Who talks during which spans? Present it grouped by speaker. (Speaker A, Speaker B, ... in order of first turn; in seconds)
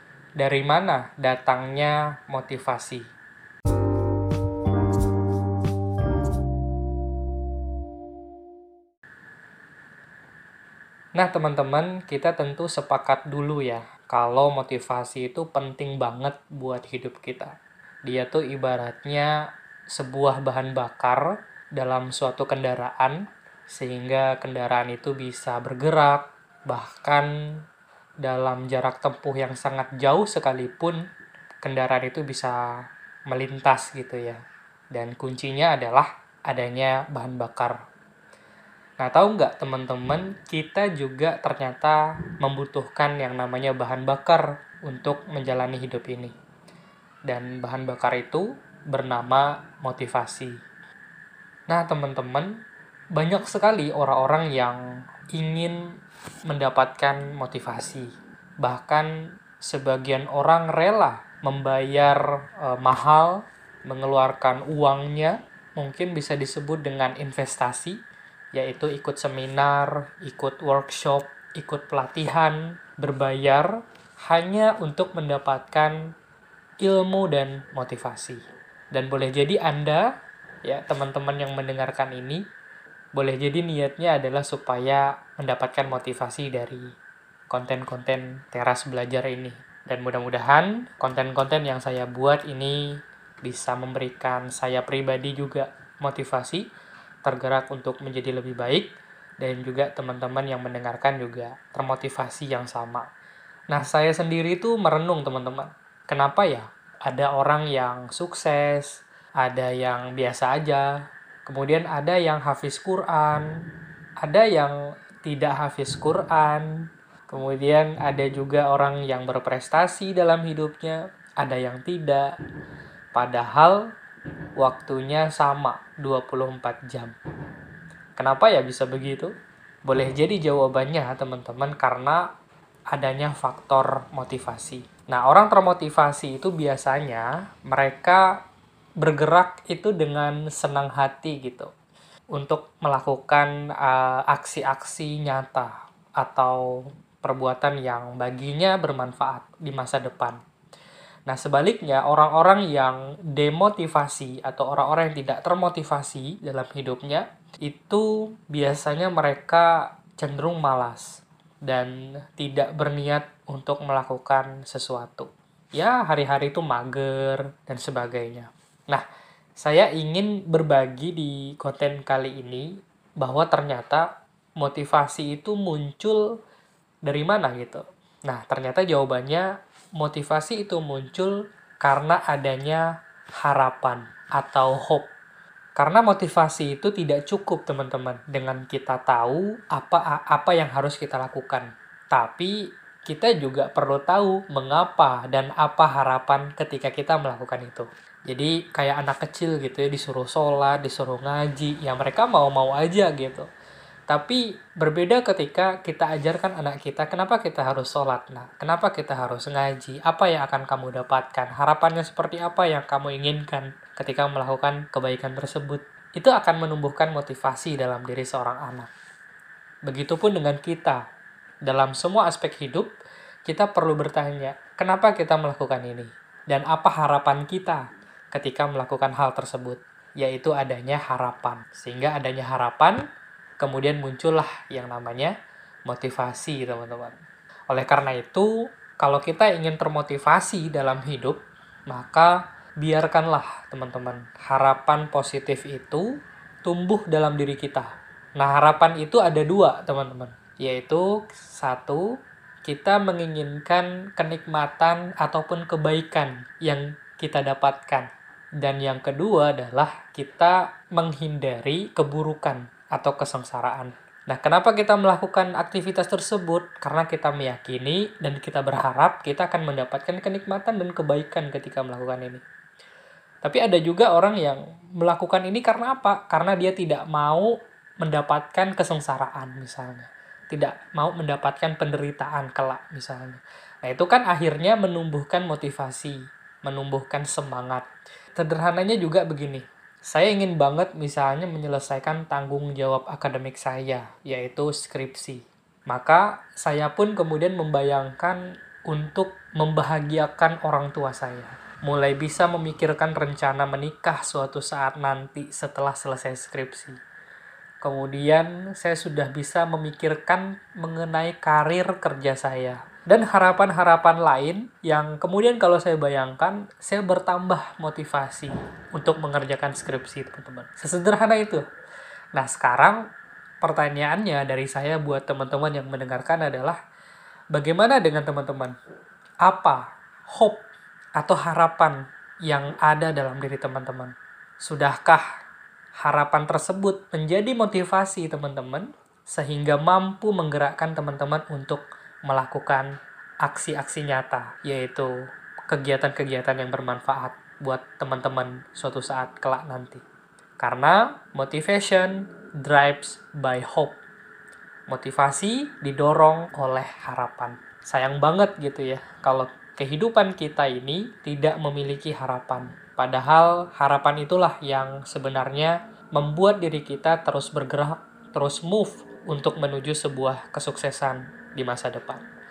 Speaker A: 0.4-3.1, 11.2-17.6, 18.1-19.3, 19.9-21.2, 21.8-27.6, 28.2-31.0, 31.6-34.4, 34.9-37.8, 39.0-46.3, 47.3-50.6, 51.7-52.6, 53.1-54.8, 55.3-55.9, 56.5-58.1, 58.6-68.0, 68.5-73.7, 74.3-76.0, 76.8-78.4, 78.9-80.1, 80.7-82.4, 83.2-86.9, 87.5-96.7, 97.2-103.1, 103.7-113.5, 114.2-122.3, 123.1-123.9, 124.6-127.2, 128.2-129.3, 129.9-132.2, 132.9-138.3, 139.0-141.7, 142.3-146.7, 147.2-150.4, 151.3-169.1, 169.6-174.1, 174.6-176.3, 177.1-182.8, 183.4-185.1, 185.8-192.6, 193.1-203.5, 204.1-218.9, 219.9-221.0, 221.6-222.9, 223.5-233.0, 233.6-235.3, 235.9-237.2, 237.7-258.1, 258.6-272.4, 273.4-307.0, 307.8-321.6, 322.4-323.0, 323.6-326.8, 327.5-328.8, 329.4-335.3, 336.0-350.0, 350.6-354.0, 354.9-372.2